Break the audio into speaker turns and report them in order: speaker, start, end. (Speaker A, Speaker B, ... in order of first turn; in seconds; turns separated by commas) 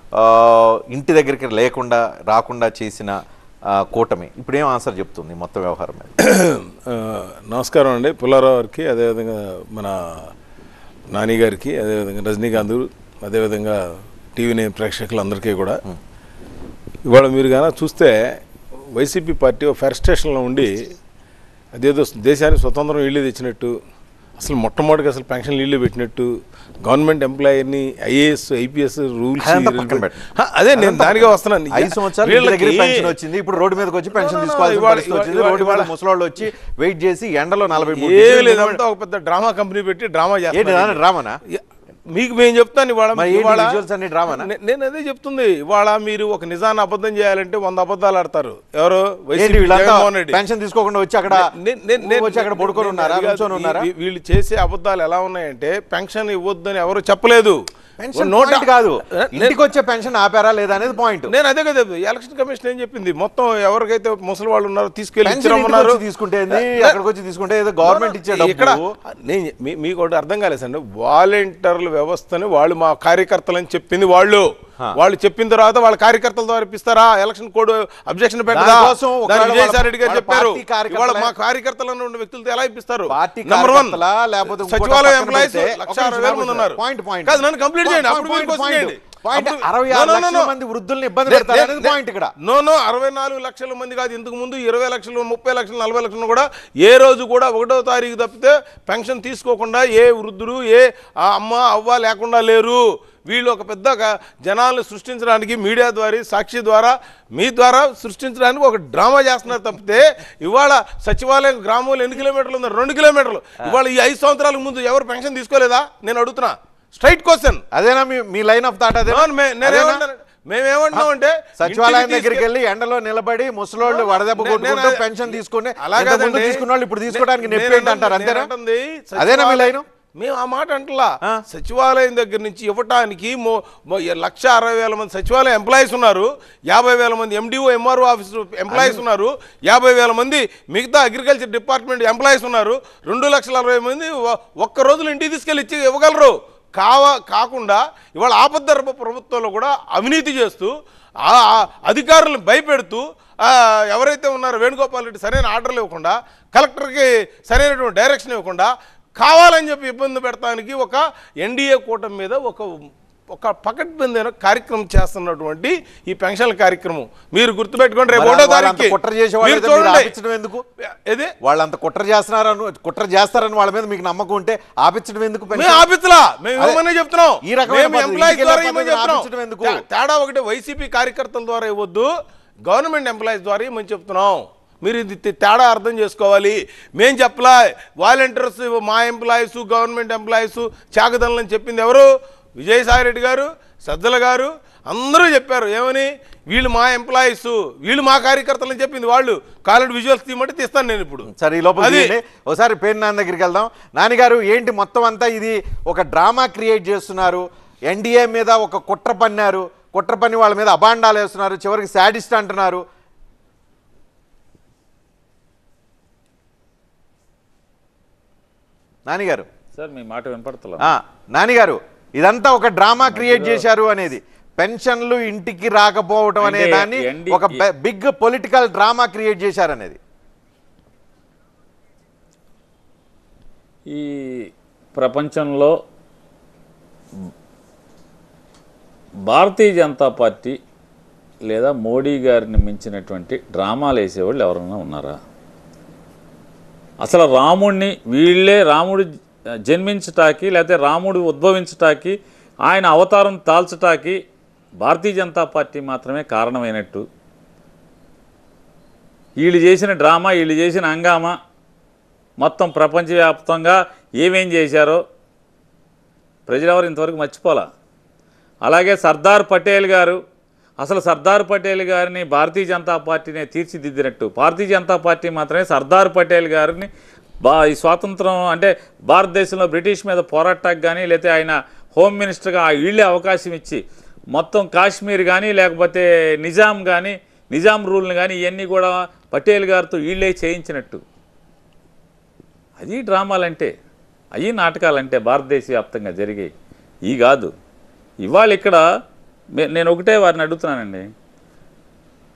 Speaker A: 0.2-3.2, Speaker A: 3.7-6.1, Speaker B: 6.2-10.3, Speaker B: 11.1-15.8, Speaker B: 17.0-18.4, Speaker B: 18.9-20.9, Speaker B: 21.7-23.8, Speaker B: 24.4-26.3, Speaker B: 26.8-33.1, Speaker A: 29.4-30.2, Speaker A: 30.7-38.8, Speaker B: 34.1-35.9, Speaker B: 37.8-50.4, Speaker A: 40.5-41.4, Speaker A: 43.1-44.5, Speaker A: 49.3-51.5, Speaker B: 51.3-57.6, Speaker A: 52.0-53.9, Speaker A: 58.0-61.3, Speaker B: 58.1-59.6, Speaker B: 61.3-67.0, Speaker A: 65.2-68.9, Speaker B: 67.8-90.5, Speaker A: 78.5-81.3, Speaker A: 83.1-92.3, Speaker B: 91.2-117.6, Speaker A: 117.7-120.0, Speaker B: 119.1-122.4, Speaker A: 121.6-128.5, Speaker B: 123.8-150.7, Speaker A: 129.2-129.8, Speaker A: 138.7-139.0, Speaker B: 151.2-170.1, Speaker A: 168.1-170.6, Speaker B: 171.1-171.3, Speaker A: 171.4-175.8, Speaker B: 175.5-182.1, Speaker A: 176.6-176.8, Speaker A: 177.4-179.8, Speaker B: 182.7-202.1, Speaker A: 201.3-212.8, Speaker A: 219.1-219.5, Speaker C: 219.7-220.8, Speaker A: 220.8-230.0, Speaker C: 223.1-223.6, Speaker C: 226.4-227.6, Speaker C: 233.9-235.7, Speaker C: 239.3-240.6, Speaker C: 241.5-245.2, Speaker C: 247.0-249.1, Speaker C: 249.7-252.1, Speaker C: 252.7-254.2, Speaker C: 254.8-257.0, Speaker C: 259.4-261.4, Speaker C: 262.4-265.0, Speaker C: 266.5-267.6, Speaker C: 268.6-270.2, Speaker C: 270.8-276.9, Speaker C: 277.4-283.8, Speaker C: 284.3-291.0, Speaker C: 292.8-293.7, Speaker C: 294.4-296.5, Speaker C: 297.1-297.5, Speaker C: 298.2-298.8, Speaker C: 299.6-301.1